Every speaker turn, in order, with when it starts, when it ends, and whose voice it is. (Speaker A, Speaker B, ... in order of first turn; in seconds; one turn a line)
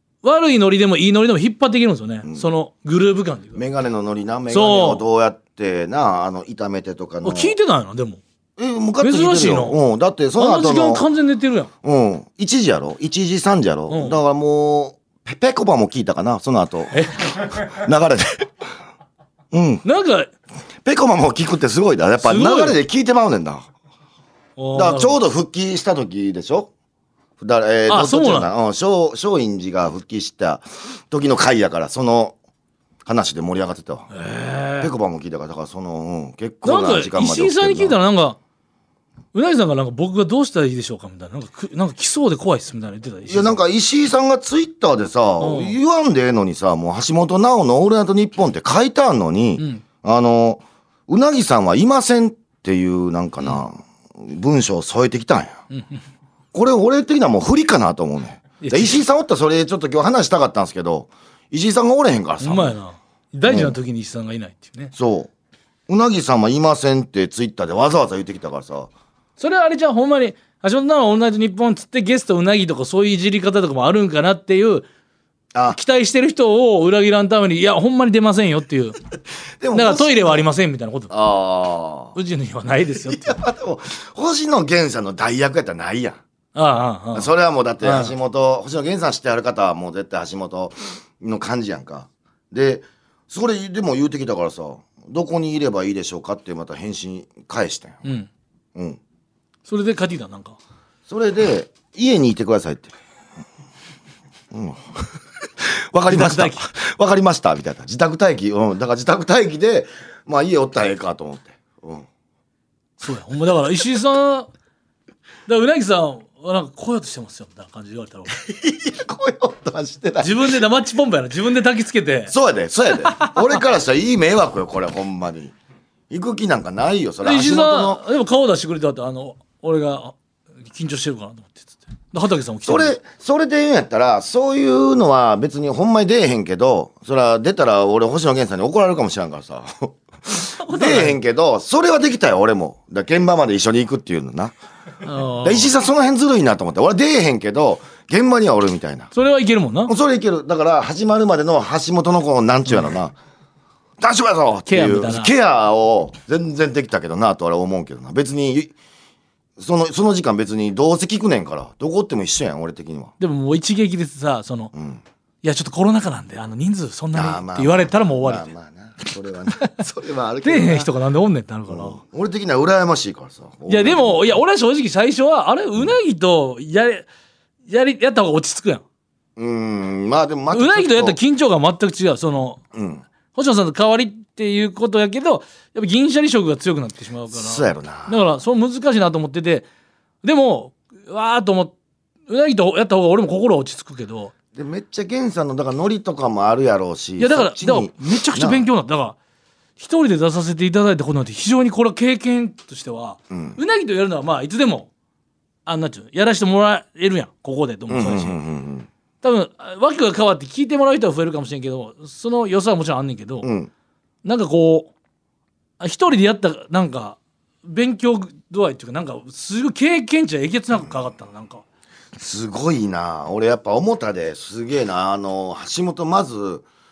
Speaker A: 0.2-3.6
Speaker B: 3.5-7.5
Speaker A: 4.5-5.0
Speaker A: 7.2-8.2
Speaker B: 8.6-11.1
Speaker A: 9.0-9.8
Speaker A: 10.4-11.7
Speaker B: 11.8-18.5
Speaker A: 13.9-14.2
Speaker A: 16.9-17.6
Speaker B: 19.5-19.8
Speaker A: 19.8-20.3
Speaker B: 20.8-23.7
Speaker A: 22.2-22.8
Speaker A: 24.6-25.2
Speaker B: 24.8-26.7
Speaker B: 27.4-32.4
Speaker A: 27.9-28.5
Speaker B: 33.1-34.1
Speaker A: 34.1-34.9
Speaker B: 34.8-38.0
Speaker A: 36.6-38.4
Speaker A: 39.3-43.6
Speaker B: 43.3-55.6
Speaker A: 45.4-45.8
Speaker A: 49.6-49.8
Speaker A: 55.7-56.0
Speaker B: 56.5-62.8
Speaker A: 58.6-59.0
Speaker A: 62.4-64.9
Speaker B: 63.5-63.8
Speaker B: 64.9-65.3
Speaker B: 65.9-68.9
Speaker A: 69.4-74.9
Speaker B: 75.5-75.8
Speaker A: 75.7-79.0
Speaker B: 79.6-80.5
Speaker A: 79.7-81.1
Speaker B: 81.1-82.2
Speaker A: 82.2-83.4
Speaker B: 83.0-86.2
Speaker A: 86.5-87.3
Speaker B: 87.1-98.0
Speaker A: 87.8-88.1
Speaker A: 98.0-98.3
Speaker B: 98.8-99.0
Speaker A: 99.7-100.6
Speaker B: 101.1-102.9
Speaker B: 104.5-112.1
Speaker A: 106.1-106.7
Speaker A: 113.0-114.5
Speaker A: 115.5-118.4
Speaker B: 118.3-120.6
Speaker A: 120.2-122.3
Speaker B: 122.3-125.5
Speaker A: 123.0-123.6
Speaker B: 126.1-128.0
Speaker A: 127.2-133.0
Speaker B: 132.7-144.5
Speaker A: 140.4-141.2
Speaker A: 145.0-145.7
Speaker B: 145.4-149.1
Speaker A: 149.1-149.9
Speaker B: 149.9-153.2
Speaker B: 154.0-158.7
Speaker A: 154.7-155.3
Speaker B: 159.6-163.1
Speaker A: 163.2-164.7
Speaker B: 164.7-165.0
Speaker A: 165.4-168.5
Speaker B: 167.1-170.9
Speaker A: 170.4-172.0
Speaker B: 171.7-174.4
Speaker A: 173.7-177.1
Speaker A: 177.7-178.8
Speaker B: 179.4-181.2
Speaker A: 180.5-182.6
Speaker B: 182.7-183.1
Speaker A: 183.3-189.7
Speaker B: 187.3-188.2
Speaker A: 190.2-191.7
Speaker A: 192.3-194.3
Speaker B: 194.5-198.7
Speaker A: 197.2-199.2
Speaker A: 199.8-204.9
Speaker B: 203.3-203.6
Speaker A: 205.7-208.4
Speaker B: 207.9-208.9
Speaker A: 209.2-213.5
Speaker B: 213.4-213.7
Speaker A: 214.2-214.9
Speaker A: 215.8-221.6
Speaker B: 222.2-226.7